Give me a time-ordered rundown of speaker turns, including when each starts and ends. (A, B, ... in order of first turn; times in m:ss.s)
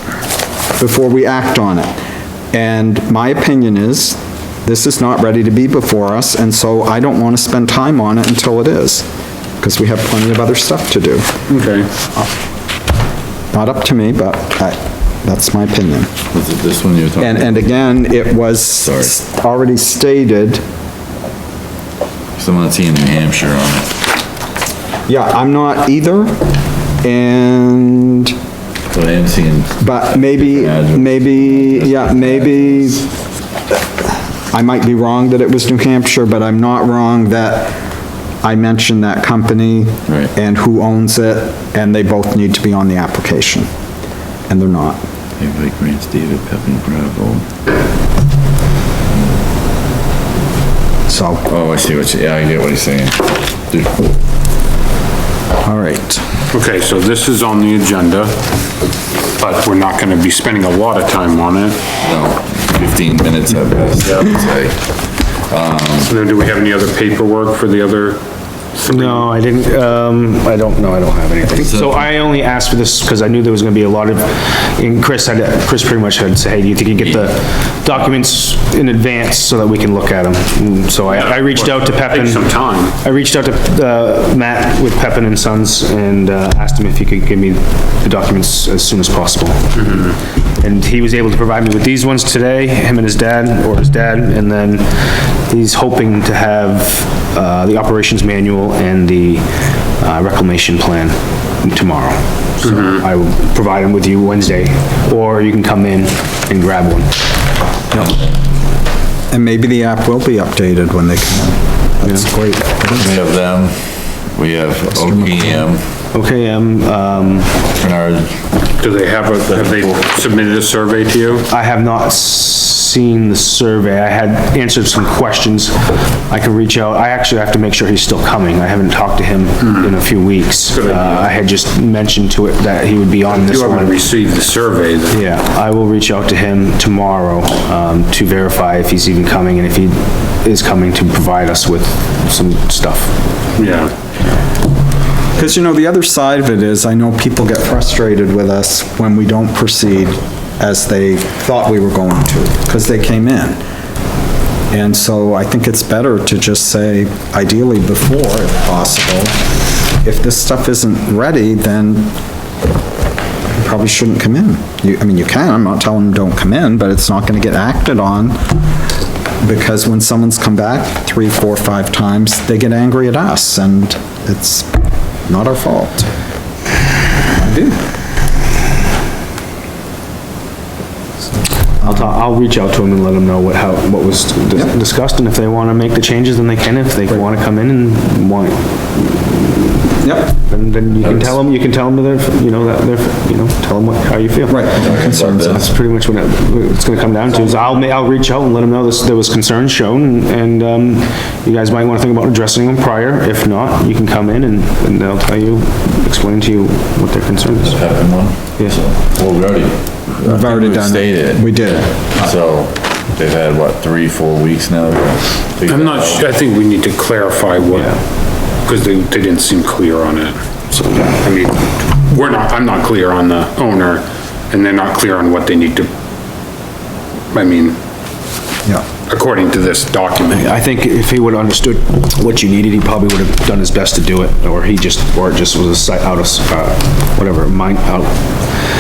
0:00.8-0:02.0 A
0:02.5-0:09.1 A
0:09.6-0:11.3 A
0:11.5-0:11.9 B
0:13.5-0:16.1 A
0:16.3-0:17.9 C
0:17.2-0:20.6 A
0:18.8-0:19.1 C
0:22.4-0:23.9 C
0:25.1-0:26.3 A
0:27.0-0:28.3 A
0:28.9-0:33.0 C
0:29.8-0:33.1 A
0:34.5-0:37.8 A
0:38.4-0:43.7 A
0:44.5-0:45.0 A
0:45.4-0:47.5 C
0:51.1-0:51.4 A
0:51.5-0:54.1 C
0:55.6-0:56.2 A
0:56.5-0:58.4 B
0:59.4-1:01.8 B
1:02.0-1:06.1 C
1:04.0-1:04.4 B
1:06.0-1:08.2 B
1:08.8-1:09.3 B
1:08.8-1:47.6 D
1:11.6-1:12.0 C
1:21.1-1:23.0 B
1:29.8-1:30.1 B
1:42.6-1:43.0 B
1:47.9-1:48.4 C
1:49.3-1:53.1 A
1:52.0-1:52.3 D
1:52.9-1:55.8 C
1:54.9-1:55.6 A
1:56.1-1:57.7 D
1:57.8-1:58.4 C
1:58.8-2:01.5 B
2:01.5-2:14.0 D
2:09.6-2:10.0 B
2:10.7-2:11.3 B
2:13.3-2:15.2 B
2:15.1-2:23.2 D
2:23.6-2:23.9 B
2:25.4-2:33.6 A
2:34.7-2:39.4 A
2:40.0-2:42.2 A
2:43.5-2:48.4 A
2:49.4-2:54.7 A
2:55.3-2:56.1 A
2:57.3-2:57.8 A
3:01.8-3:02.1 A
3:01.8-3:15.0 D
3:10.0-3:10.3 A
3:14.5-3:15.6 A
3:14.8-3:15.6 C
3:15.5-3:28.0 D
3:27.6-3:36.3 C
3:28.6-3:28.8 D
3:30.2-3:32.4 A
3:35.7-3:45.9 B
3:37.7-3:38.2 D
3:40.7-3:41.2 D
3:47.3-3:47.8 B
3:49.1-3:50.6 B
3:50.3-3:58.6 D